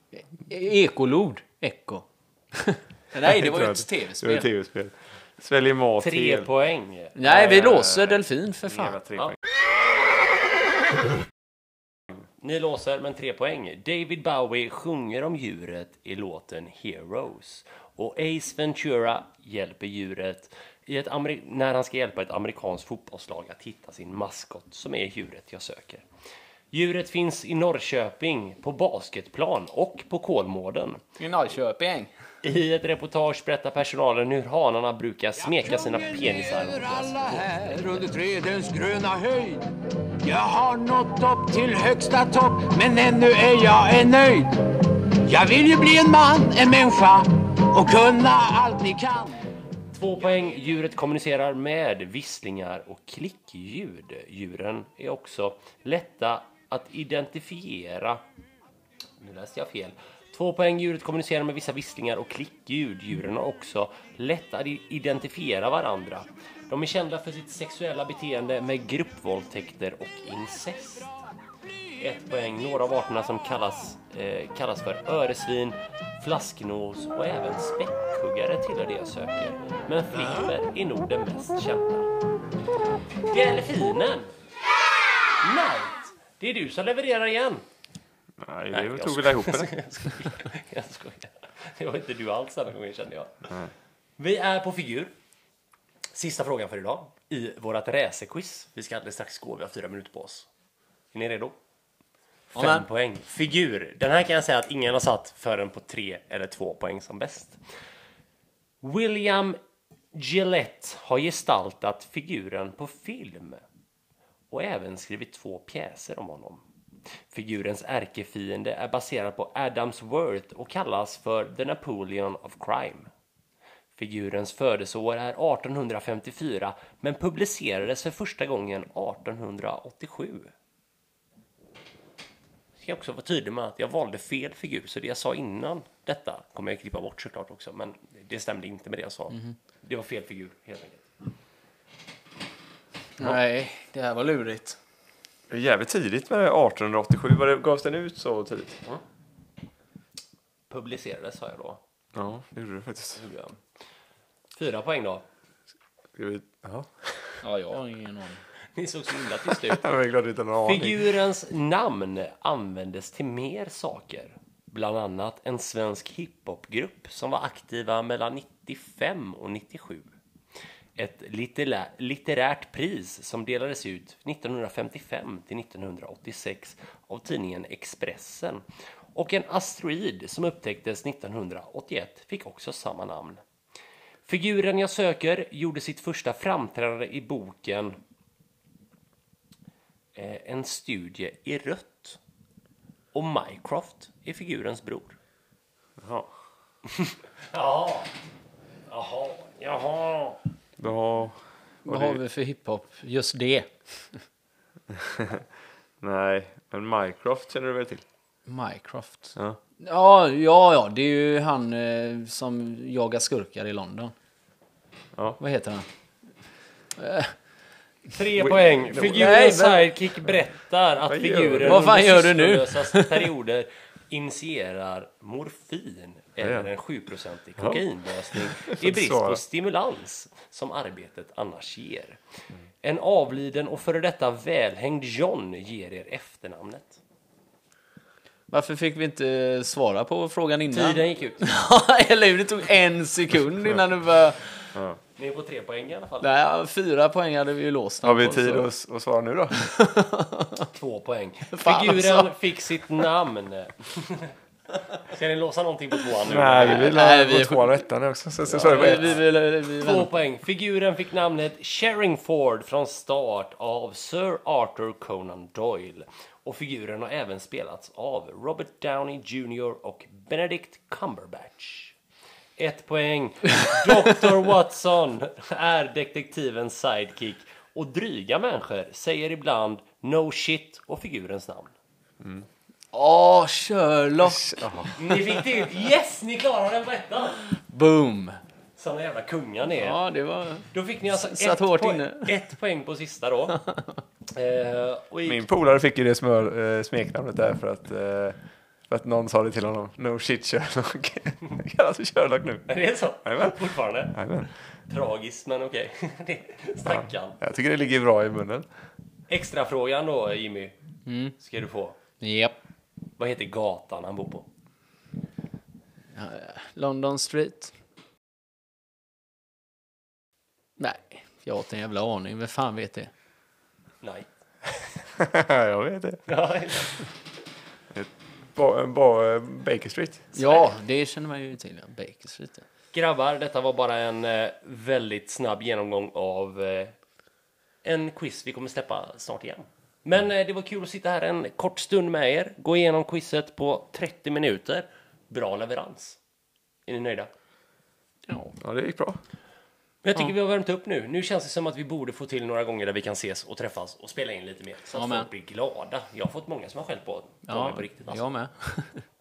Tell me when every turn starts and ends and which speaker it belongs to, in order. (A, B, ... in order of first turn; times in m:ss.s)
0:00.2-0:04.5 A
0:03.2-0:06.5 B
0:06.0-0:07.5 C
0:07.2-0:09.0 A
0:07.3-0:09.4 B
0:12.4-0:26.0 C
0:26.7-0:31.0 C
0:31.2-0:32.1 A
0:32.4-0:38.1 C
0:35.4-0:39.7 D
0:40.2-0:44.6 D
0:45.2-0:49.5 D
0:49.9-0:58.2 C
0:59.2-1:11.1 C
1:12.0-1:22.1 C
1:23.2-1:24.4 C
1:25.4-1:27.6 C
1:28.4-1:29.8 B
1:28.7-1:33.5 C
1:34.2-1:35.1 C
1:36.1-1:40.5 C
1:41.1-1:41.6 C
1:42.5-1:42.9 A
1:42.6-1:47.6 C
1:48.8-1:49.6 C
1:50.1-1:53.6 C
1:54.5-1:56.6 C
1:57.3-2:03.1 C
2:04.0-2:10.5 C
2:12.8-2:21.1 C
2:23.2-2:24.8 A
2:25.5-2:28.8 B
2:30.7-2:31.8 C
2:32.1-2:33.2 B
2:33.2-2:33.6 C
2:34.5-2:35.2 C
2:36.2-2:37.4 B
2:37.4-2:38.4 A
2:38.8-2:39.9 C
2:39.6-2:41.0 B
2:40.6-2:50.1 C
2:51.0-2:58.6 C
2:59.2-3:03.4 C
3:04.3-3:08.0 C
3:10.2-3:12.2 C
3:13.1-3:15.2 C
3:16.0-3:16.3 B
3:16.9-3:18.1 C
3:18.9-3:20.4 C
3:20.8-3:22.2 B
3:21.8-3:24.2 A
3:24.9-3:25.5 B
3:26.0-3:28.0 B
3:28.5-3:34.1 A
3:35.1-3:35.4 B
3:35.4-3:35.9 A
3:37.0-3:37.3 A
3:38.1-3:52.2 C
3:38.4-3:39.3 B
3:39.1-3:39.9 A
3:41.1-3:41.9 B
3:41.6-3:43.3 A
3:46.4-3:46.7 B
3:47.6-3:49.4 B
3:52.8-3:57.0 C
3:58.5-4:04.4 A
4:00.7-4:01.4 C
4:04.8-4:05.0 B
4:05.2-4:06.3 C
4:06.2-4:08.7 A
4:08.0-4:09.6 B
4:09.7-4:10.7 A
4:10.7-4:14.4 C
4:11.5-4:12.3 A
4:15.0-4:16.9 C
4:16.2-4:19.2 B
4:16.6-4:17.8 A
4:18.5-4:20.1 A
4:18.6-4:32.0 C
4:32.6-4:41.7 C
4:42.2-4:42.5 B
4:42.9-4:44.6 A
4:44.2-4:45.0 B
4:45.0-4:47.5 C
4:47.6-4:48.4 A
4:48.8-4:50.0 C
4:49.8-4:52.4 A
4:50.7-4:53.6 C
4:53.6-4:54.0 A
4:54.3-4:55.4 C
4:55.3-4:58.4 B
4:58.9-5:02.7 B
5:02.7-5:04.2 C
5:03.2-5:04.5 B
5:04.9-5:07.4 C
5:06.9-5:08.7 B
5:09.3-5:10.8 C
5:11.1-5:11.4 A
5:11.4-5:12.0 C
5:12.2-5:12.6 A
5:13.2-5:14.5 C
5:16.1-5:17.8 A
5:20.8-5:23.1 A
5:24.0-5:24.3 C
5:25.2-5:26.2 B
5:26.3-5:27.0 C
5:27.9-5:30.4 B
5:30.4-5:32.6 A
5:32.9-5:37.0 C
5:37.8-5:46.2 C
5:46.9-5:47.3 C
5:48.3-5:48.5 A
5:48.6-5:49.2 B
5:50.0-5:58.2 C
5:54.9-5:55.3 A
5:57.5-5:59.0 A